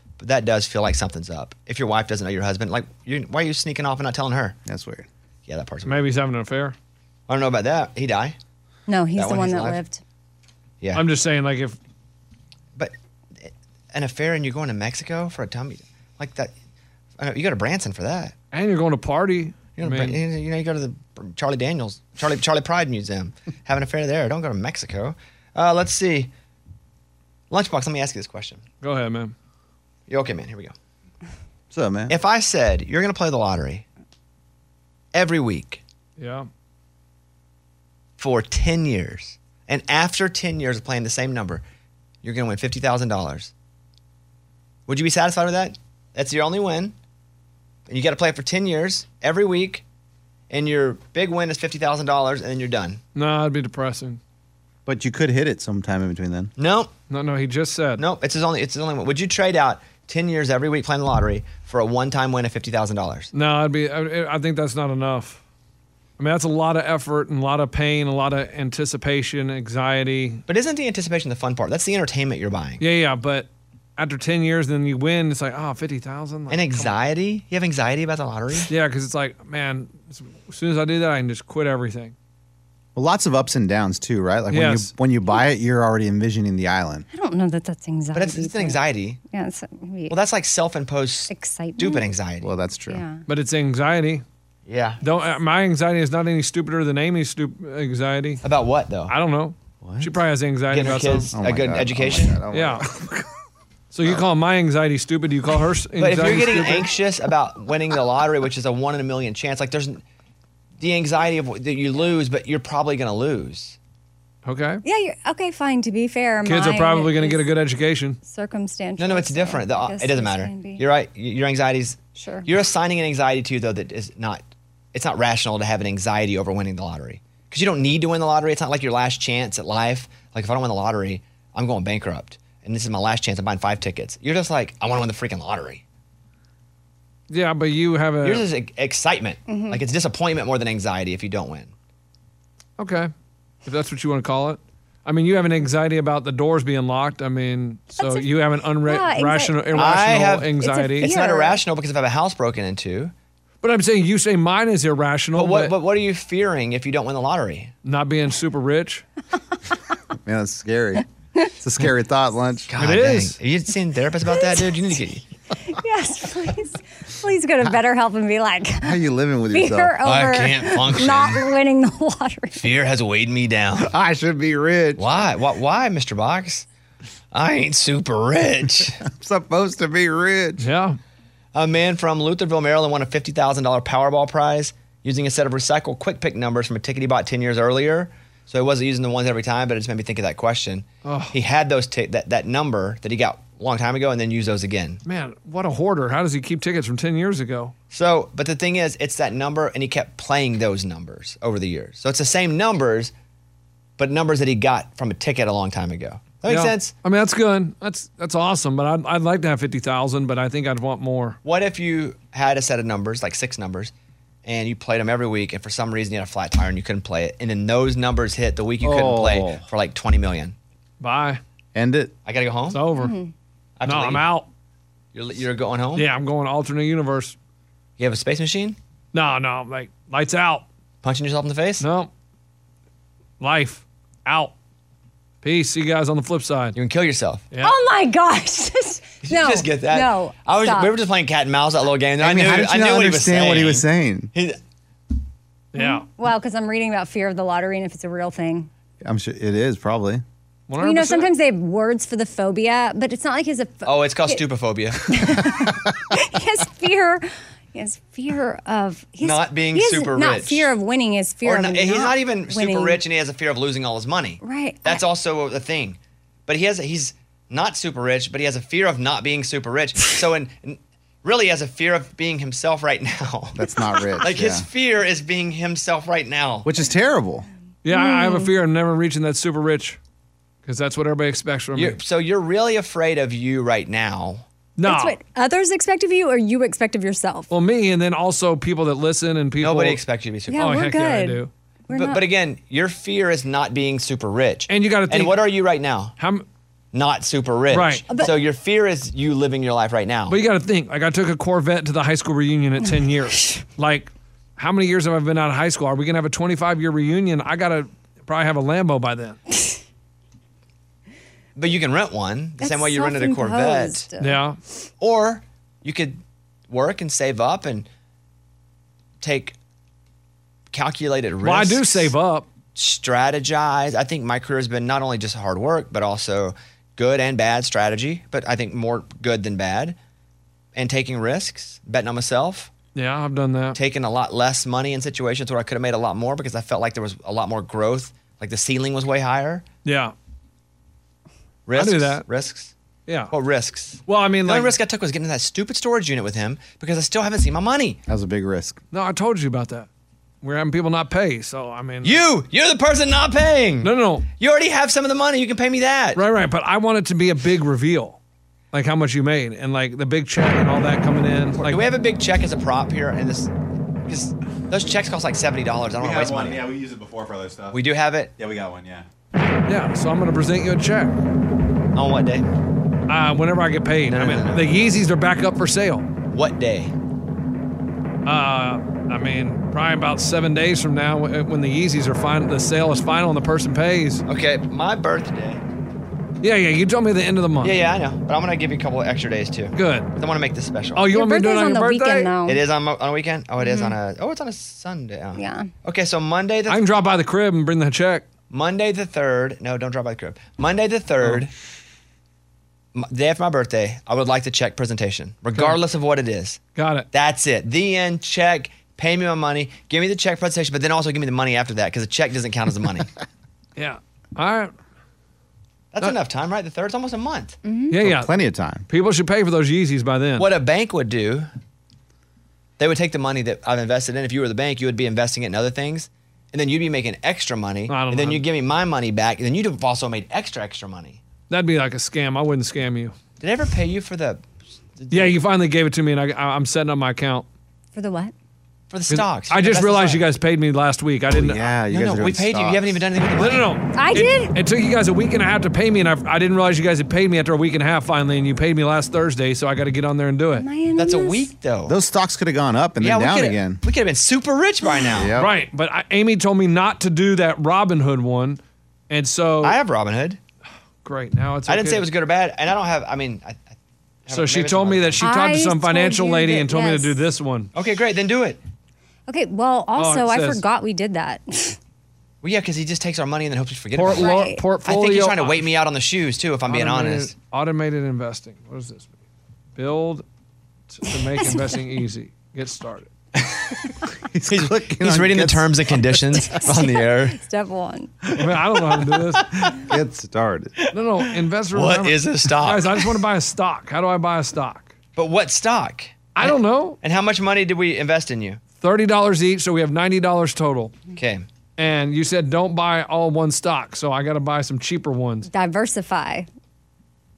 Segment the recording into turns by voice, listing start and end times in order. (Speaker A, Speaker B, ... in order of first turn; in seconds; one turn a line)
Speaker A: 0.2-4.6
Speaker B: 4.7-5.1
Speaker A: 5.5-6.1
Speaker C: 5.8-6.8
Speaker A: 7.3-8.3
Speaker D: 8.9-10.0
Speaker A: 9.2-9.8
Speaker C: 10.9-11.8
Speaker A: 12.8-16.5
Speaker A: 17.2-18.3
Speaker C: 18.5-20.2
Speaker A: 19.8-26.3
Speaker A: 27.5-28.6
Speaker C: 28.8-29.3
Speaker A: 30.1-30.7
Speaker B: 31.7-32.1
Speaker A: 32.1-33.8
Speaker A: 35.1-35.8
Speaker C: 36.2-36.5
Speaker A: 38.2-41.6
Speaker A: 42.2-43.5
Speaker A: 44.9-46.9
Speaker A: 47.9-49.8
Speaker A: 50.5-53.0
Speaker C: 53.1-54.2
Speaker B: 54.9-56.5
Speaker A: 56.6-56.9
Speaker C: 57.1-58.0
Speaker A: 58.0-63.3
Speaker C: 63.3-65.4
Speaker C: 66.2-70.4
Speaker A: 70.5-72.8
Speaker C: 72.8-76.9
Speaker A: 76.5-78.7
Speaker C: 78.7-82.1
Speaker B: 82.9-87.0
Speaker C: 84.5-84.9
Speaker D: 87.1-90.2
Speaker A: 88.1-89.2
Speaker A: 90.1-92.5
Speaker D: 91.3-92.1
Speaker B: 92.4-93.0
Speaker D: 92.9-93.2
Speaker C: 93.3-94.2
Speaker A: 94.7-95.0
Speaker C: 95.0-98.4
Speaker A: 98.4-99.1
Speaker C: 99.1-101.3
Speaker B: 99.8-100.1
Speaker A: 100.7-102.4
Speaker B: 101.3-103.3
Speaker C: 102.5-102.8
Speaker C: 103.9-106.9
Speaker A: 106.0-110.0
Speaker A: 110.8-113.8
Speaker C: 114.4-114.8
Speaker D: 114.8-117.5
Speaker C: 116.4-118.2
Speaker D: 118.2-120.8
Speaker A: 119.0-135.8
Speaker D: 122.2-122.5
Speaker C: 137.3-138.4
Speaker A: 138.2-141.7
Speaker D: 139.5-139.8
Speaker C: 142.8-143.1
Speaker C: 143.6-151.1
Speaker D: 147.9-148.3
Speaker D: 148.8-151.6
Speaker A: 149.7-153.1
Speaker C: 153.6-155.7
Speaker A: 155.3-157.7
Speaker C: 157.8-159.0
Speaker B: 160.2-161.0
Speaker B: 161.6-162.7
Speaker A: 162.7-165.2
Speaker C: 162.8-163.4
Speaker D: 164.3-164.9
Speaker D: 165.7-169.0
Speaker B: 168.8-169.9
Speaker D: 169.5-172.6
Speaker A: 170.0-171.5
Speaker A: 172.5-173.9
Speaker B: 173.8-175.1
Speaker A: 175.0-176.7
Speaker A: 177.3-179.0
Speaker B: 179.0-180.7
Speaker C: 180.6-181.0
Speaker A: 181.5-195.0
Speaker C: 191.0-191.3
Speaker C: 195.0-197.7
Speaker A: 197.9-203.1
Speaker A: 204.0-206.9
Speaker C: 206.5-211.4
Speaker A: 211.4-213.9
Speaker A: 214.4-220.5
Speaker B: 218.8-219.6
Speaker C: 221.0-221.4
Speaker B: 221.7-222.1
Speaker A: 222.2-222.8
Speaker C: 222.7-223.1
Speaker D: 222.9-223.3
Speaker A: 223.8-224.2
Speaker C: 223.8-224.5
Speaker A: 225.1-226.1
Speaker C: 225.9-227.3
Speaker A: 228.0-228.8
Speaker C: 229.1-230.6
Speaker A: 231.0-231.8
Speaker C: 231.8-232.1
Speaker C: 233.4-234.5
Speaker C: 235.4-236.8
Speaker A: 236.7-237.4
Speaker D: 237.6-240.9
Speaker A: 239.2-244.6
Speaker B: 242.2-244.3
Speaker C: 245.7-246.0
Speaker D: 245.8-248.7
Speaker B: 249.0-250.2
Speaker C: 250.7-251.3
Speaker D: 250.8-254.4
Speaker A: 253.8-255.0
Speaker D: 255.1-263.0
Speaker A: 259.2-260.7
Speaker A: 261.4-273.6
Speaker D: 264.4-265.0
Speaker B: 273.6-274.6
Speaker A: 274.2-276.7
Speaker B: 276.6-277.5
Speaker C: 277.8-280.0
Speaker D: 277.9-278.5
Speaker C: 280.6-282.0
Speaker A: 281.7-284.4
Speaker C: 284.8-285.2
Speaker D: 284.8-287.5
Speaker C: 287.5-291.5
Speaker A: 289.6-290.7
Speaker D: 290.5-292.2
Speaker A: 291.9-296.1
Speaker C: 294.7-295.5
Speaker C: 296.2-296.4
Speaker A: 296.9-300.4
Speaker C: 297.7-298.1
Speaker D: 298.1-298.4
Speaker C: 300.3-309.4
Speaker A: 311.6-314.1
Speaker D: 312.6-314.4
Speaker C: 314.2-314.6
Speaker A: 315.0-317.9
Speaker A: 319.2-319.5
Speaker A: 320.7-322.1
Speaker C: 321.4-322.4
Speaker A: 322.7-330.0
Speaker A: 330.7-332.7
Speaker C: 332.9-333.8
Speaker A: 333.7-339.6
Speaker C: 339.8-340.1
Speaker A: 341.7-342.7
Speaker C: 341.7-342.2
Speaker C: 343.1-343.3
Speaker A: 343.3-348.0
Speaker C: 344.1-344.8
Speaker B: 348.1-348.8
Speaker C: 348.9-349.9
Speaker C: 350.4-352.2
Speaker A: 352.0-356.2
Speaker C: 353.8-354.2
Speaker C: 356.1-358.2
Speaker C: 358.7-361.8
Speaker A: 361.6-363.5
Speaker A: 364.1-366.7
Speaker E: 366.0-367.8
Speaker A: 367.7-368.3
Speaker E: 368.4-369.0
Speaker C: 369.7-371.1
Speaker A: 371.9-372.4
Speaker C: 373.1-376.1
Speaker A: 374.1-374.7
Speaker A: 376.3-376.9
Speaker C: 378.2-384.2
Speaker A: 384.2-385.6
Speaker C: 386.4-387.8
Speaker A: 387.6-391.1
Speaker C: 389.7-390.1
Speaker C: 390.9-392.3
Speaker D: 391.1-392.6
Speaker A: 392.4-396.8
Speaker D: 393.6-394.0
Speaker D: 395.4-395.7
Speaker C: 396.7-398.2
Speaker A: 398.5-401.5
Speaker A: 402.9-406.6
Speaker C: 406.8-407.1
Speaker A: 407.1-413.1
Speaker C: 413.8-414.7
Speaker A: 415.9-417.6
Speaker D: 417.6-417.9
Speaker C: 417.9-418.3
Speaker B: 418.0-418.8
Speaker C: 418.9-420.5
Speaker A: 420.4-421.5
Speaker A: 422.8-431.2
Speaker C: 427.9-428.4
Speaker C: 431.5-433.1
Speaker A: 433.4-434.4
Speaker A: 435.0-435.4
Speaker C: 435.1-437.4
Speaker D: 437.9-438.3
Speaker A: 438.9-440.2
Speaker C: 439.1-441.6
Speaker B: 441.3-443.0
Speaker A: 441.9-443.7
Speaker C: 443.4-450.6
Speaker D: 443.9-444.5
Speaker D: 450.6-451.5
Speaker A: 450.9-451.9
Speaker B: 451.9-453.8
Speaker A: 453.0-455.3
Speaker B: 455.1-455.5
Speaker C: 455.4-459.8
Speaker A: 459.6-460.4
Speaker C: 461.0-462.1
Speaker A: 461.7-463.7
Speaker A: 464.2-465.2
Speaker C: 464.3-467.7
Speaker D: 465.2-467.2
Speaker A: 467.7-468.6
Speaker D: 469.3-471.8
Speaker C: 470.0-470.6
Speaker A: 472.4-477.3
Speaker C: 473.9-475.6
Speaker D: 474.1-474.6
Speaker C: 476.7-479.1
Speaker C: 479.8-480.2
Speaker C: 480.9-483.1
Speaker D: 481.4-481.8
Speaker B: 484.3-486.1
Speaker A: 484.5-487.4
Speaker D: 486.4-488.1
Speaker C: 488.3-489.5
Speaker B: 489.7-490.7
Speaker C: 490.9-494.9
Speaker A: 491.7-493.0
Speaker A: 495.1-498.6
Speaker C: 496.3-497.0
Speaker C: 498.8-500.9
Speaker A: 501.1-501.4
Speaker C: 501.8-505.5
Speaker D: 505.5-506.5